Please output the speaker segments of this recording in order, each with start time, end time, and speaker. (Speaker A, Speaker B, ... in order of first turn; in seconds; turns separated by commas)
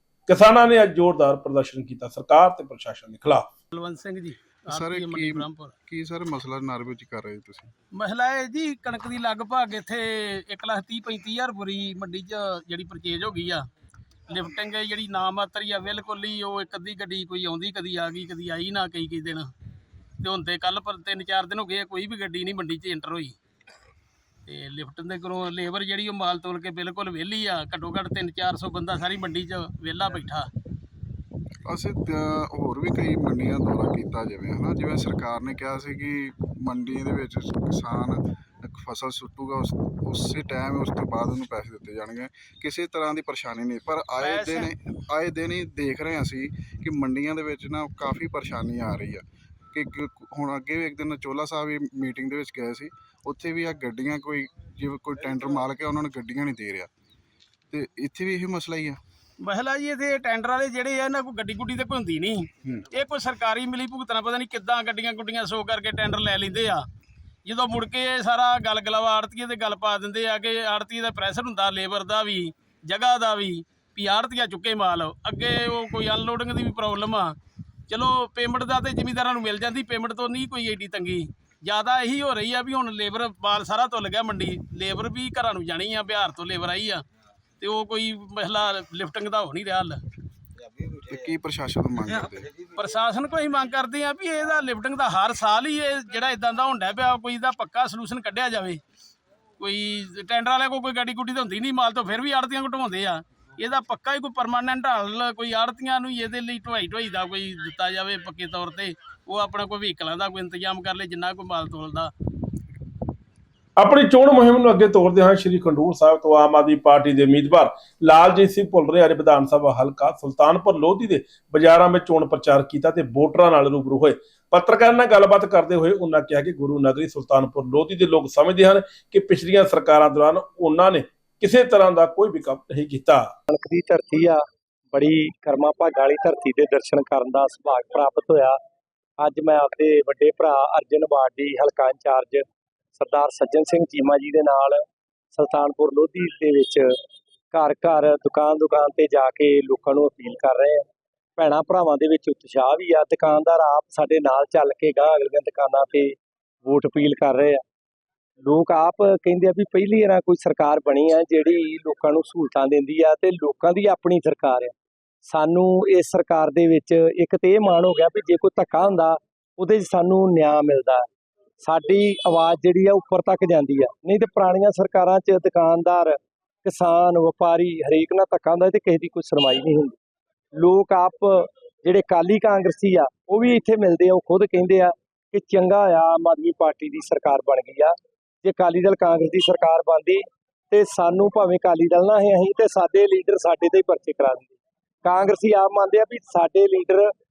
Speaker A: 0.3-3.5, Speaker B: 3.7-5.7, Speaker C: 4.7-7.7, Speaker B: 8.0-13.7, Speaker B: 14.3-19.5, Speaker B: 20.2-23.4, Speaker B: 24.5-30.5, Speaker C: 31.6-56.9, Speaker B: 44.2-44.7, Speaker C: 57.7-59.0, Speaker B: 59.4-66.8, Speaker B: 67.5-77.3, Speaker B: 77.9-87.0, Speaker B: 87.6-90.0, Speaker C: 91.0-92.5, Speaker B: 92.8-98.8, Speaker B: 99.6-112.1, Speaker A: 113.8-133.3, Speaker D: 133.5-138.6, Speaker D: 139.2-142.4, Speaker D: 143.0-147.0, Speaker D: 147.5-157.6, Speaker D: 158.4-164.8, Speaker D: 165.2-171.1, Speaker D: 171.6-180.0, Speaker D: 180.6-197.1